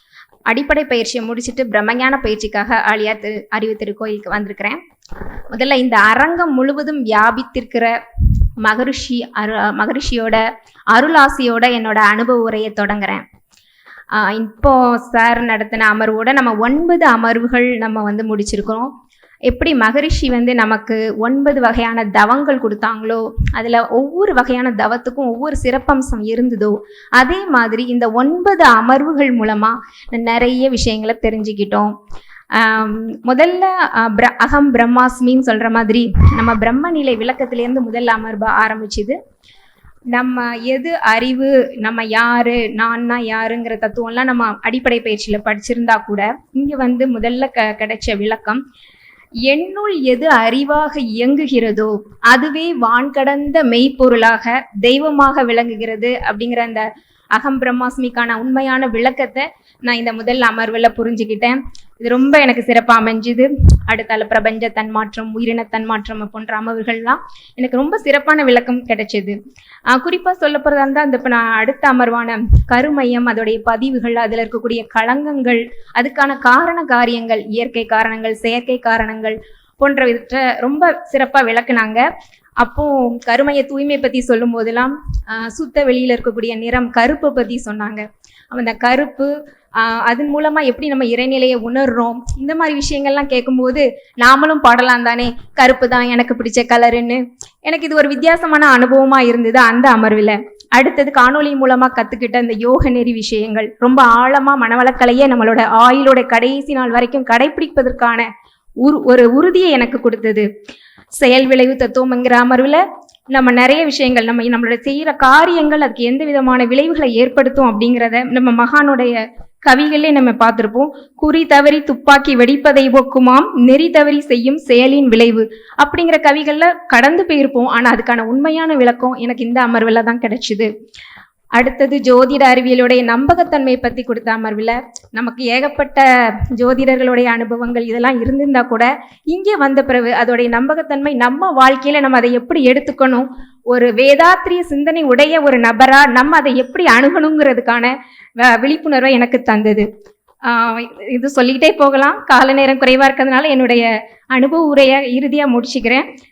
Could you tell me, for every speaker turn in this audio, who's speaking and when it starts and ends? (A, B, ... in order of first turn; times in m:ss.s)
0:00.5-0:04.8 A
0:05.5-0:07.9 A
0:08.6-0:13.2 A
0:14.1-0:18.9 A
0:19.5-0:31.9 A
0:32.5-0:39.2 A
0:40.1-0:48.6 A
0:49.5-1:09.4 A
1:09.9-1:22.0 A
1:22.6-1:48.3 A
1:48.8-1:50.4 A
1:51.2-1:52.8 A
1:53.3-2:10.7 A
2:11.6-2:16.0 A
2:16.6-2:29.9 A
2:30.5-2:36.0 A